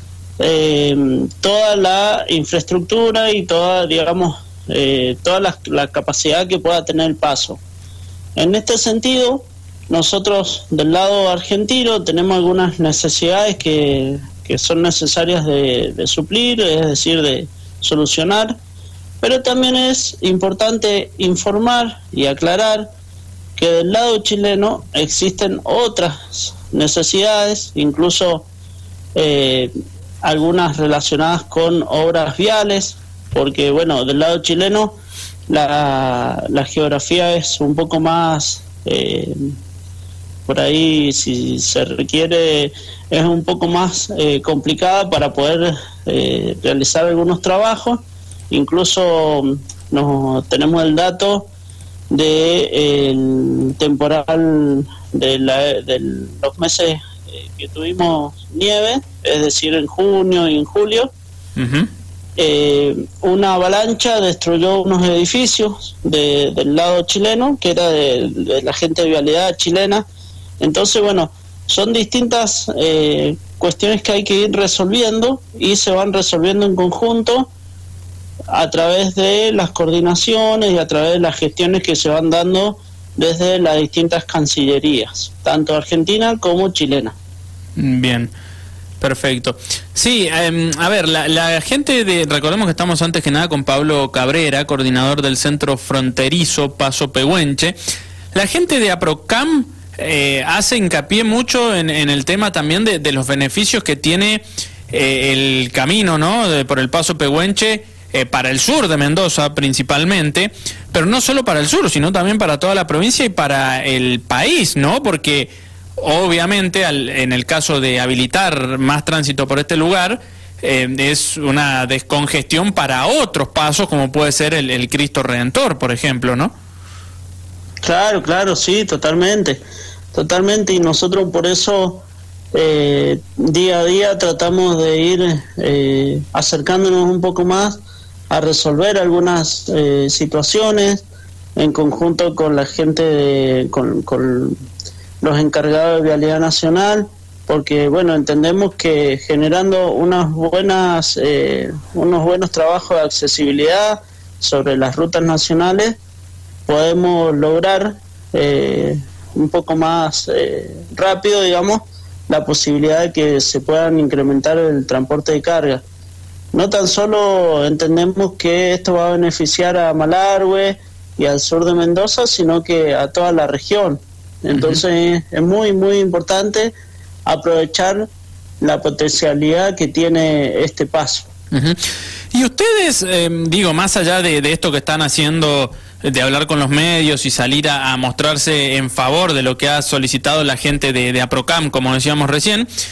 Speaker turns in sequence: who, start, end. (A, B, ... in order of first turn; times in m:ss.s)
0:00.4-0:07.6 A
0:08.4-0:18.6 A
0:19.2-0:22.9 A
0:23.6-0:28.5 A
0:29.2-0:29.7 A
0:30.2-0:34.9 A
0:35.5-0:39.5 A
0:40.4-0:51.5 A
0:52.1-1:01.1 A
1:01.6-1:01.9 B
1:02.4-1:10.0 A
1:10.6-1:17.5 A
1:18.5-1:27.2 A
1:27.8-1:28.3 B
1:29.0-1:37.8 B
1:38.3-2:06.5 B
2:07.8-2:09.6 A
2:10.1-2:17.8 A
2:18.3-2:21.0 A
2:21.6-2:24.6 A
2:25.2-2:36.0 A
2:36.7-2:45.8 A
2:46.5-2:56.7 A
2:54.5-2:54.8 B
2:57.2-2:58.1 A
2:58.6-3:01.3 A
3:01.5-3:01.8 B
3:02.3-3:12.7 B